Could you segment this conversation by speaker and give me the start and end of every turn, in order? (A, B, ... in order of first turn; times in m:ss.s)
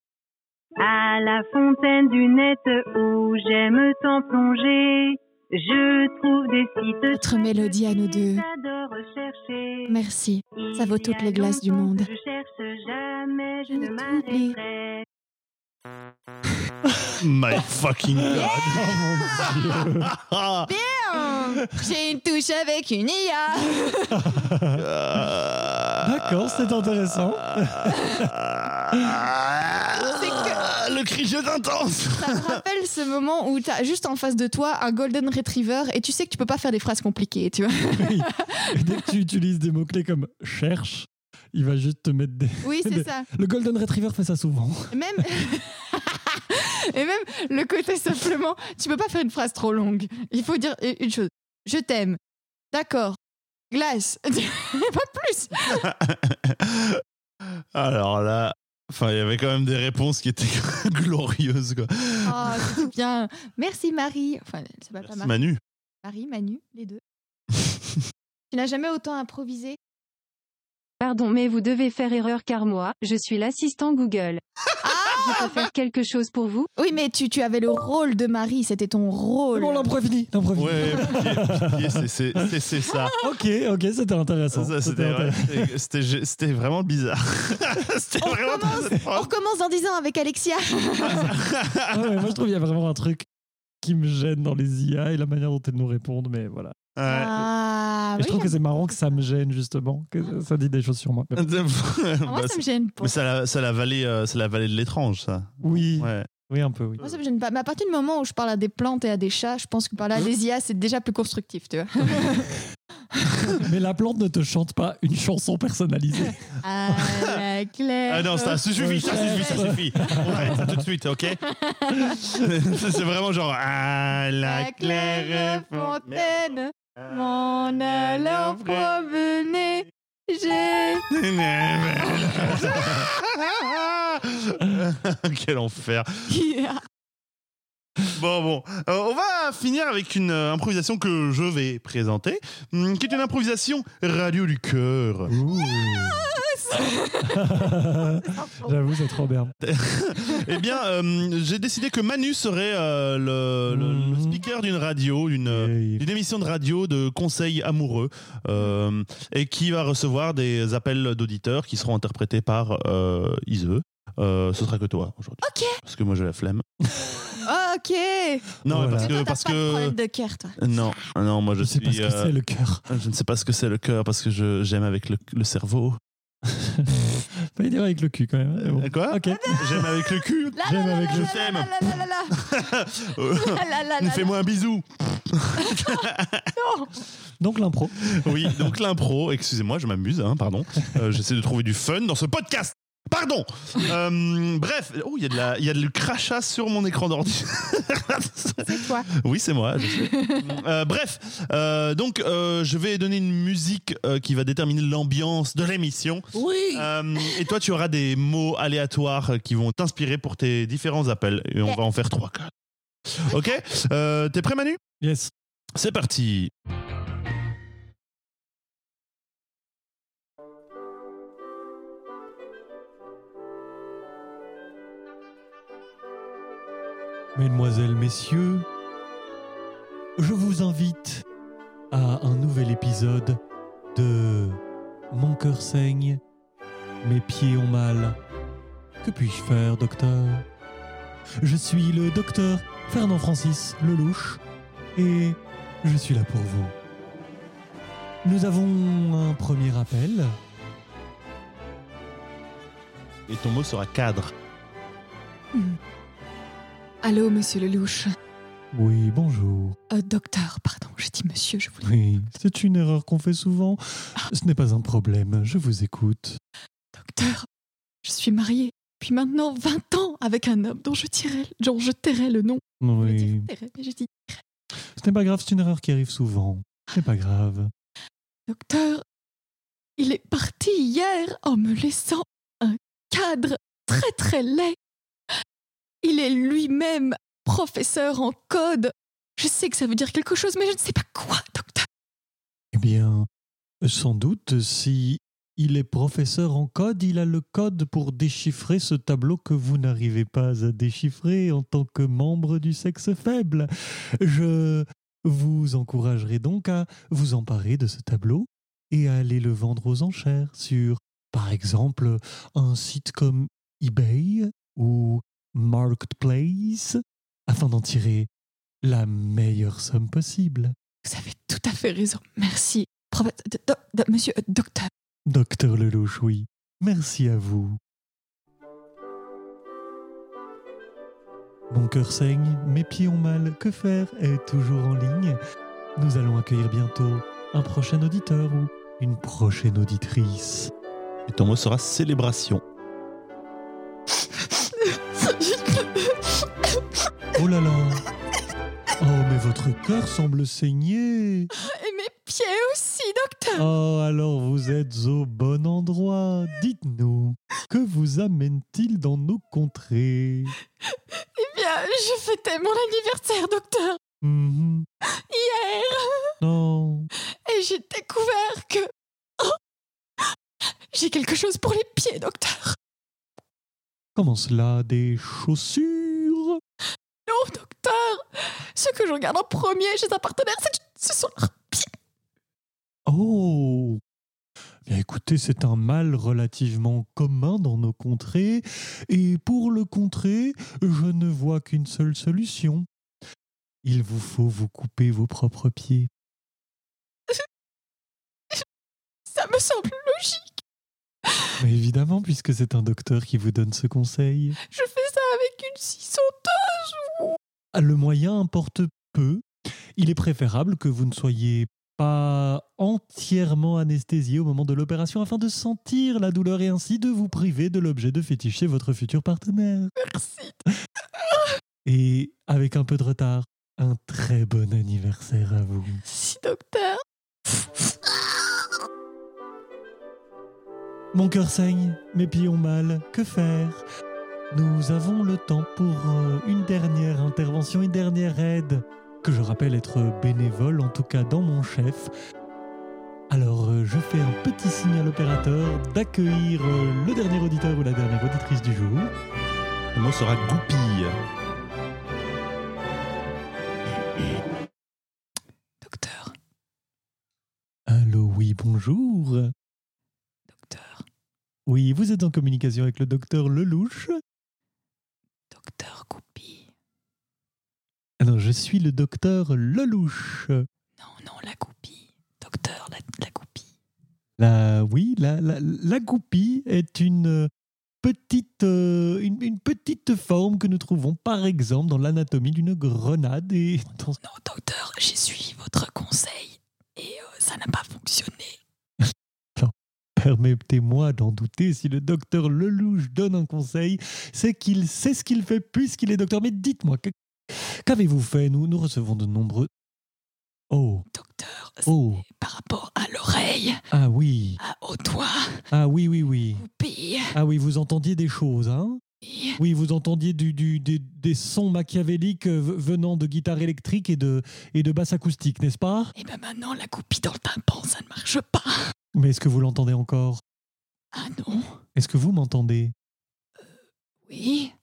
0:00.8-0:10.0 A
0:07.1-0:08.4 B
0:09.9-0:12.1 B
0:10.6-0:15.1 A
0:13.7-0:14.6 B
0:17.2-0:20.7 C
0:18.3-0:19.6 B
0:18.4-0:20.1 D
0:20.7-0:24.3 B
0:24.1-0:24.8 D
0:24.7-0:32.6 C
0:26.0-0:28.3 D
0:30.0-0:30.7 B
0:32.1-0:39.0 B
0:38.0-0:45.5 D
0:42.6-0:43.3 B
0:44.9-0:52.2 B
0:52.7-0:53.2 B
0:53.7-0:55.9 B
0:55.7-0:57.0 C
0:57.7-1:02.8 C
1:02.2-1:05.4 B
1:05.0-1:05.6 C
1:06.0-1:07.0 B
1:08.5-1:09.8 B
1:11.0-1:14.4 E
1:14.8-1:15.7 B
1:15.2-1:16.7 E
1:16.8-1:19.9 B
1:19.5-1:22.0 D
1:20.6-1:23.2 C
1:23.2-1:25.7 D
1:24.5-1:29.3 C
1:28.2-1:31.3 B
1:31.0-1:32.3 C
1:31.9-1:33.3 D
1:33.8-1:36.8 D
1:37.0-1:37.5 C
1:37.1-1:38.6 B
1:38.2-1:41.5 D
1:41.4-1:46.3 C
1:42.2-1:43.2 B
1:45.6-1:47.0 D
1:47.0-1:52.6 B
1:53.5-1:56.4 D
1:56.6-2:00.6 B
1:58.1-2:01.4 C
1:58.8-2:00.9 D
2:01.4-2:02.4 B
2:02.3-2:06.4 C
2:04.4-2:11.1 B
2:07.8-2:08.9 C
2:11.1-2:16.1 C
2:12.3-2:13.0 B
2:16.3-2:16.8 B
2:18.0-2:25.4 C
2:25.3-2:26.3 D
2:25.6-2:27.6 B
2:27.2-2:29.5 D
2:28.2-2:28.8 B
2:29.6-2:46.6 C
2:33.7-2:34.4 D
2:35.5-2:36.0 D
2:45.4-2:45.8 B
2:47.4-2:50.9 B
2:48.6-2:50.0 C
2:48.7-2:49.1 D
2:50.6-2:52.3 C
2:51.6-2:52.9 D
2:52.9-2:56.0 C
2:56.5-2:59.9 D
2:58.6-3:06.5 C
2:59.3-3:02.5 B
3:00.6-3:01.4 D
3:03.3-3:04.3 B
3:05.6-3:06.9 B
3:07.4-3:08.8 D
3:08.0-3:32.5 C
3:18.7-3:19.1 B
3:19.9-3:20.4 B
3:26.3-3:26.9 D
3:33.1-3:34.8 C
3:33.3-3:33.6 B
3:35.0-3:35.3 D
3:35.8-3:36.5 C
3:47.4-3:48.7 D
3:50.2-3:51.2 D
3:51.9-3:53.4 D
3:53.9-3:56.2 D
3:57.0-3:58.2 D
3:59.0-4:00.5 D
4:01.4-4:04.4 D
4:05.0-4:06.8 D
4:08.2-4:10.4 D
4:13.3-4:14.3 C
4:15.5-4:15.8 B
4:17.0-4:18.1 B
4:18.7-4:19.8 D
4:19.9-4:22.0 B
4:21.8-4:26.4 D
4:26.9-4:27.5 B
4:28.0-4:34.4 B
4:32.8-4:33.5 D
4:34.9-4:37.7 D
4:38.5-4:39.0 B
4:40.0-4:44.8 B
4:46.0-4:51.9 B
4:52.7-4:53.3 D
4:53.8-5:18.3 D
5:18.8-5:20.8 D
5:21.0-5:24.9 B
5:25.3-5:27.8 D
5:31.7-5:35.4 D
5:36.0-5:40.7 D
5:41.3-5:42.6 C
5:44.6-5:46.8 B
5:47.3-5:48.1 D
5:49.0-5:51.5 D
5:51.5-5:53.7 B
5:53.6-6:00.6 D
6:00.9-6:04.0 B
6:04.2-6:04.9 D
6:05.1-6:06.4 B
6:06.4-6:07.1 D
6:07.5-6:09.6 B
6:10.9-6:12.8 B
6:14.2-6:16.6 D
6:17.3-6:21.9 B
6:23.1-6:24.0 D
6:24.9-6:32.9 D
6:33.8-6:36.1 D
6:39.3-6:40.6 B
6:41.6-6:44.6 D
6:44.6-6:47.4 B
6:47.7-6:49.4 D
6:50.0-6:59.9 D
7:00.0-7:00.6 B
7:01.8-7:06.0 D
7:06.0-7:07.9 B
7:11.1-7:13.8 D
7:14.5-7:22.1 D
7:23.3-7:29.1 D
7:29.9-7:31.2 C
7:35.8-7:36.4 B
7:37.9-7:39.5 D
7:40.5-7:41.0 B
7:41.7-7:44.2 D
7:45.5-7:46.7 B
7:48.2-7:50.7 D
7:51.0-7:53.7 B
7:54.4-7:57.5 D
7:58.0-8:04.2 D
8:04.2-8:08.6 B
8:09.0-8:19.7 D
8:20.7-8:21.1 D
8:21.1-8:23.8 B
8:21.9-8:22.2 D
8:23.9-8:24.6 D
8:24.6-8:25.6 B
8:25.7-8:26.6 D
8:26.6-8:27.4 B
8:27.3-8:29.0 D
8:29.2-8:29.6 B
8:29.6-8:36.1 D
8:36.2-8:38.9 B
8:39.1-8:40.4 D
8:41.1-8:41.8 B
8:42.0-8:42.9 D
8:44.3-8:44.7 B